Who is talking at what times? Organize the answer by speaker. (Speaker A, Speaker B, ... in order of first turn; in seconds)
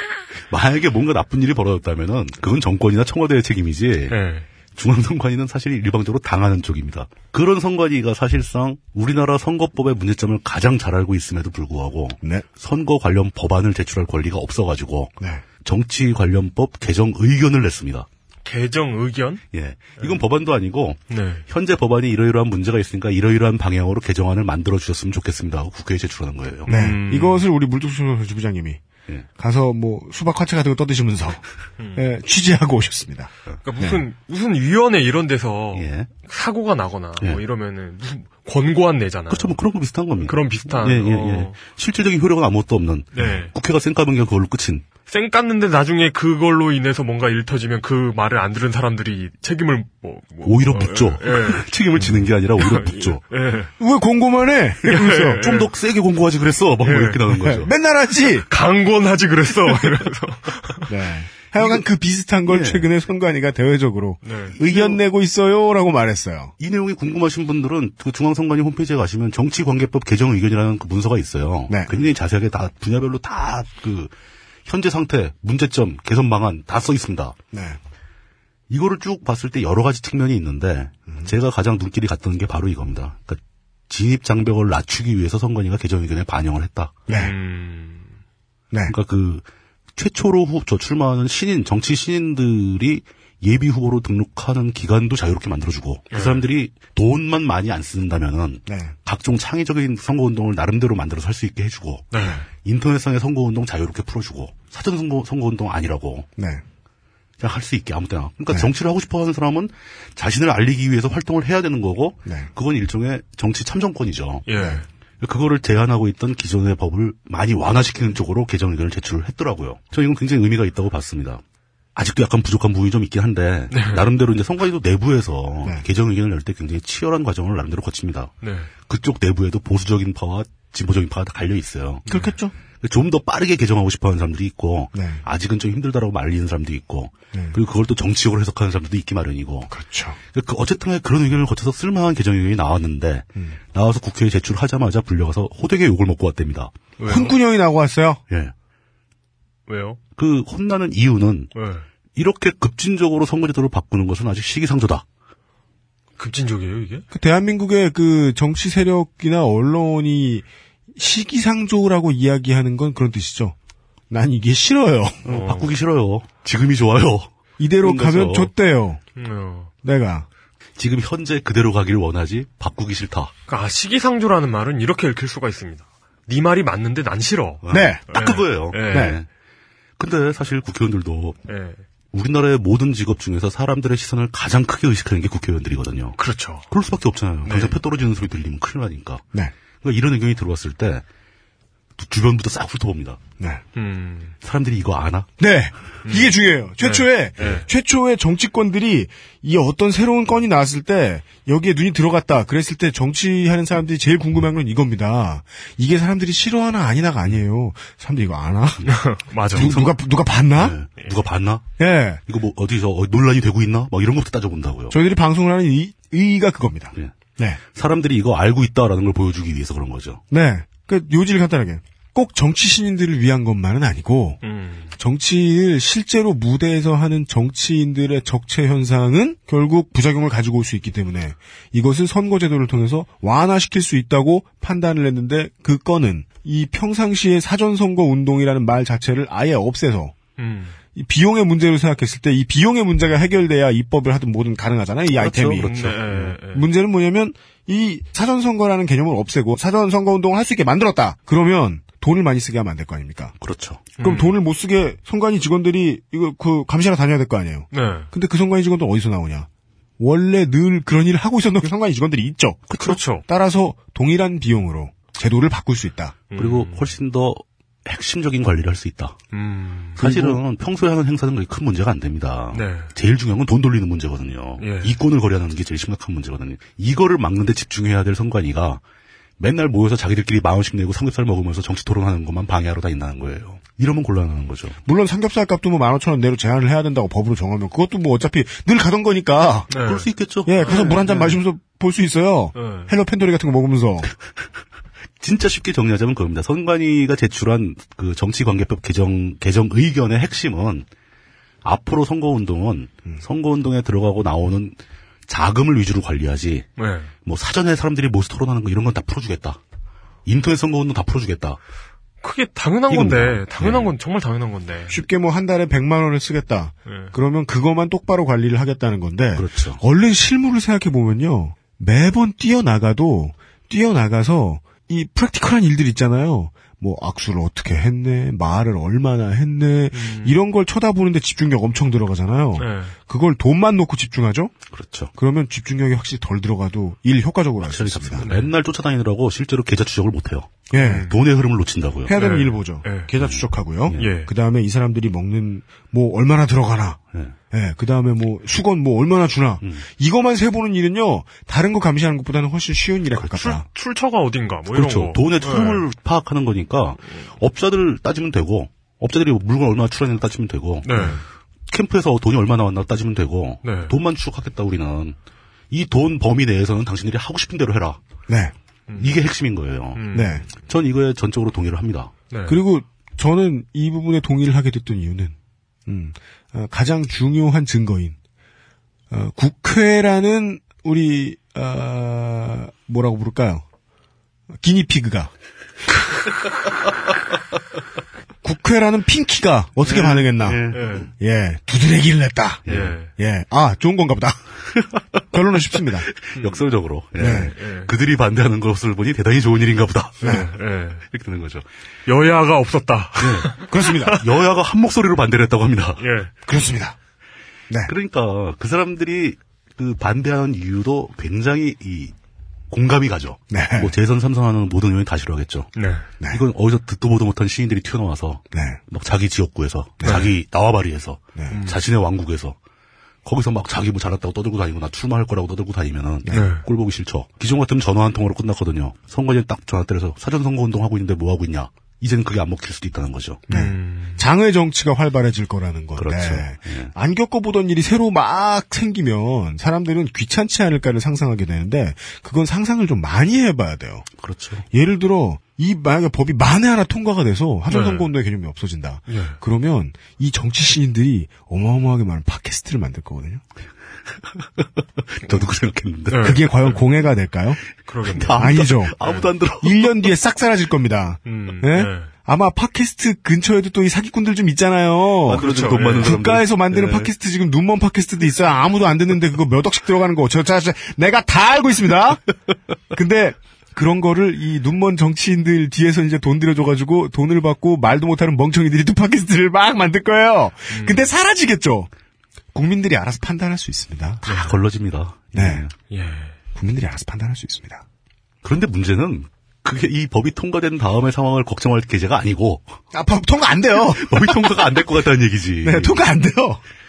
Speaker A: 0.5-4.2, 4.8-18.1, 19.5-26.8, 35.7-36.1, 39.3-44.8, 50.4-53.2, 55.4-57.7, 62.5-62.9, 64.6-65.0, 66.6-74.1, 74.7-77.3, 78.7-87.0, 88.9-106.3, 107.4-114.5, 115.2-121.4, 121.9-128.3, 128.9-132.0, 132.8-139.7, 140.3-146.7, 150.2-151.5, 152.1-155.0, 165.2-168.5, 170.8-173.3, 177.6-179.3, 180.0-181.4, 182.1-186.2, 186.7-189.2, 189.8-191.0, 192.0-193.2, 194.4-195.3, 209.5-210.0, 210.5-211.6, 212.3-215.0, 217.7-220.2, 245.1-246.3, 253.4-253.9, 262.7-263.0, 266.4-269.1, 270.0-278.8, 279.4-284.8, 289.8-290.9, 295.2-300.9, 301.6-304.8, 305.3-306.7, 307.2-309.6, 310.2-311.6, 312.9-313.9, 319.3-319.8, 334.7-335.1, 337.6-342.1, 343.2-344.1, 354.7-365.1, 365.7-368.0, 369.0-372.1, 389.8-391.1, 392.7-392.9, 396.2-400.4, 401.1-401.6, 403.2-406.0, 407.9-412.1, 412.7-415.7, 416.3-422.6, 423.2-433.4, 436.0-436.9, 444.2-444.6, 454.4-456.4, 458.0-460.1, 465.2-467.1, 484.3-485.7, 488.4-492.7, 493.8-496.0
Speaker B: 4.1-4.5, 18.4-19.4, 21.1-21.4, 26.7-27.5, 31.8-32.0, 33.6-39.5, 40.2-41.6, 43.1-43.5, 45.1-51.6, 52.6-53.7, 54.8-55.7, 56.8-57.3, 58.5-60.9, 64.2-64.6, 87.1-88.1, 96.1-96.4, 102.1-102.4, 114.5-114.8, 123.7-124.0, 128.4-128.7, 132.1-132.3, 147.0-147.3, 149.7-150.0, 151.5-151.8, 156.2-157.1, 165.3-165.7, 169.2-169.7, 173.5-179.2, 181.5-181.8, 186.2-186.7, 187.4-187.8, 193.8-194.3, 196.1-197.7, 208.8-209.7, 224.4-224.9, 240.4-240.8, 245.6-246.7, 254.0-254.4, 257.7-258.1, 262.7-263.2, 266.3-266.9, 269.3-270.1, 272.5-272.9, 274.6-274.9, 289.7-290.1, 290.6-291.4, 292.5-292.9, 306.8-307.1, 312.2-315.0, 316.9-317.1, 329.9-330.4, 332.6-332.9, 338.2-338.5, 340.8-341.1, 342.1-343.1, 343.9-344.3, 353.2-355.8, 360.8-361.2, 363.6-363.9, 368.9-369.2, 369.9-370.5, 372.3-372.6, 390.7-391.1, 392.7-393.1, 396.4-396.6, 397.2-397.9, 400.2-401.0, 402.1-404.2, 406.0-406.3, 415.8-416.1, 420.0-420.3, 421.5-421.8, 426.3-426.6, 433.5-434.2, 447.7-448.1, 449.1-449.4, 456.1-456.8, 457.9-459.3, 461.2-462.1, 465.4-466.1, 480.7-481.1, 484.2-484.6, 485.9-486.3
Speaker C: 26.7-28.8, 29.4-31.4, 31.9-34.0, 52.0-52.2, 53.8-55.4, 57.3-58.5, 60.9-66.5, 71.7-71.9, 77.5-77.8, 87.1-87.3, 98.7-98.9, 106.4-106.6, 114.6-114.8, 132.1-132.5, 134.9-135.2, 137.3-137.6, 139.7-140.2, 147.1-148.2, 157.1-163.5, 164.1-165.2, 167.6-169.0, 169.8-170.3, 177.7-178.0, 178.9-179.2, 195.4-208.9, 209.5-210.8, 211.8-212.2, 214.9-217.6, 220.3-224.4, 225.0-240.1, 240.9-253.3, 254.0-259.5, 260.0-266.2, 270.0-270.4, 284.8-289.7, 290.4-294.1, 314.9-334.5, 335.1-338.3, 340.7-341.1, 342.1-347.0, 347.5-353.6, 368.3-368.5, 370.1-370.4, 372.5-375.3, 375.9-378.1, 379.1-383.6, 384.6-385.3, 388.4-394.4, 395.3-396.1, 397.2-397.5, 403.7-404.2, 406.5-406.9, 413.5-413.9, 418.5-418.8, 433.5-444.1, 444.7-453.4, 456.2-457.6, 458.4-458.9, 459.6-472.2, 472.9-481.9, 482.5-484.3, 485.3-485.6, 486.5-487.8, 492.9-494.6, 495.6-496.6